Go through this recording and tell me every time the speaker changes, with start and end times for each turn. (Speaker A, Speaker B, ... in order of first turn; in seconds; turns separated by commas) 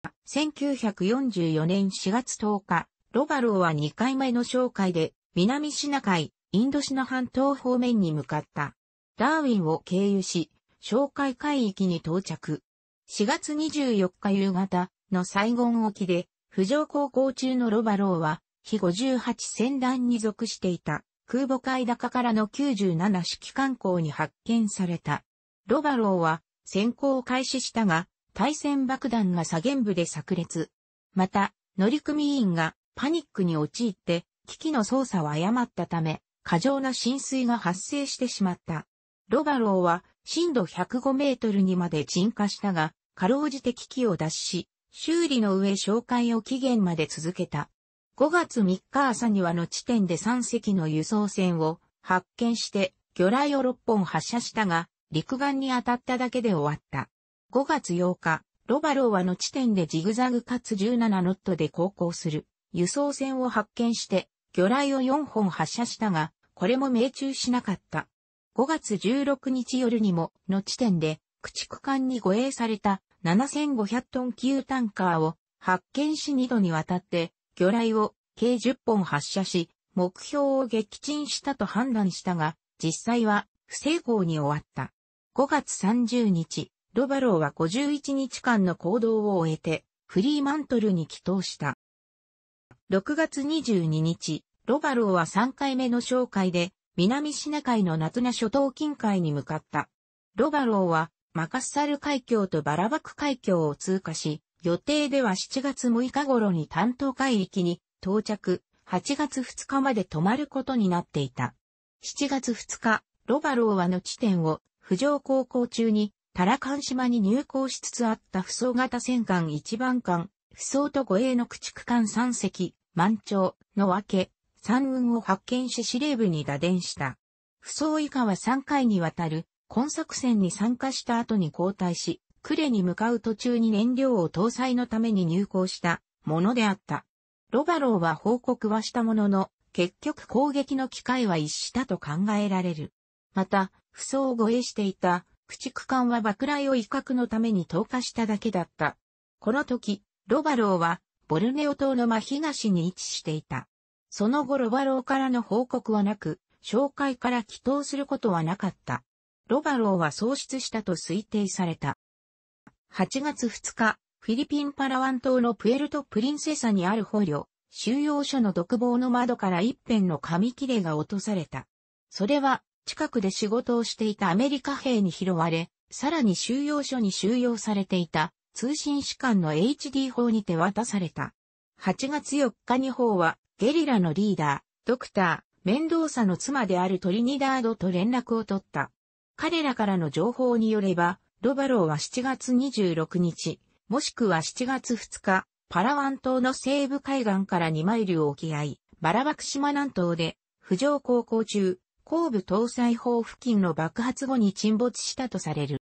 Speaker A: 0.2-91.8, Speaker A: 92.9-162.0, Speaker A: 162.9-205.8